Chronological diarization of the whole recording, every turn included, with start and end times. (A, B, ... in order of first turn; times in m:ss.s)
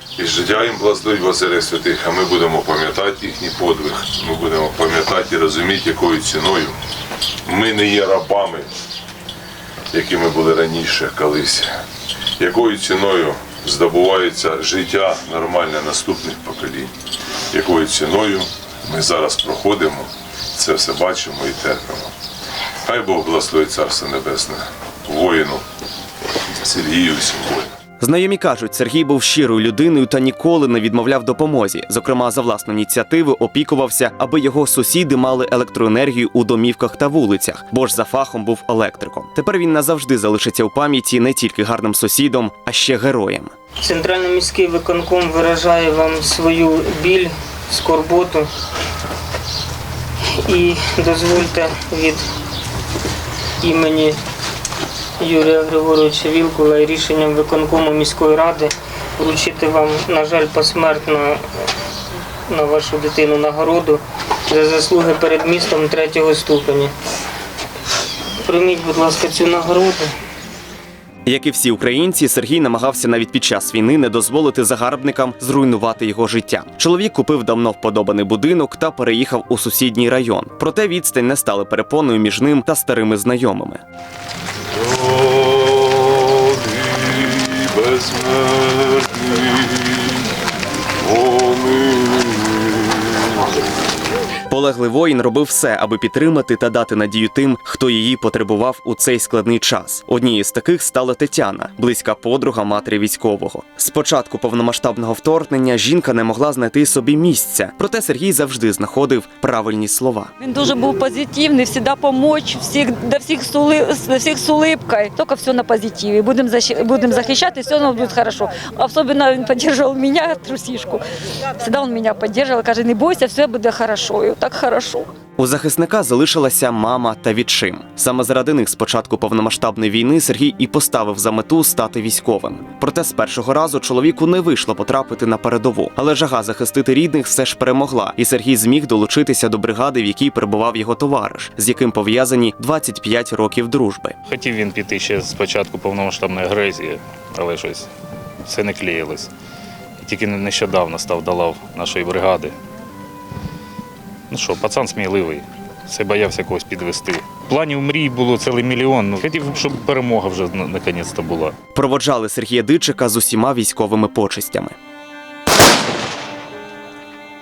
0:00.2-0:06.8 A
0:07.4-0:08.7 A
0:09.9-0:11.7 A
0:12.4-0:16.9 A
0:17.5-0:22.1 A
0:22.8-0:25.6 A
0:26.5-0:27.7 A
0:28.0-0:43.5 B
0:43.8-0:48.5 C
0:50.4-0:52.2 C
0:53.6-0:54.2 C
0:55.2-1:01.4 C
1:02.5-1:06.9 C
1:08.5-1:10.1 C
1:11.2-1:23.8 B
1:24.8-1:29.9 A
1:31.0-1:32.7 A
1:34.5-1:50.3 B
1:50.4-2:01.0 D
2:01.6-2:05.1 D
2:05.4-2:24.2 B
2:24.3-2:27.9 E
2:28.4-2:29.3 E
2:30.0-2:32.5 E
2:34.3-2:41.5 E
2:41.7-2:44.7 B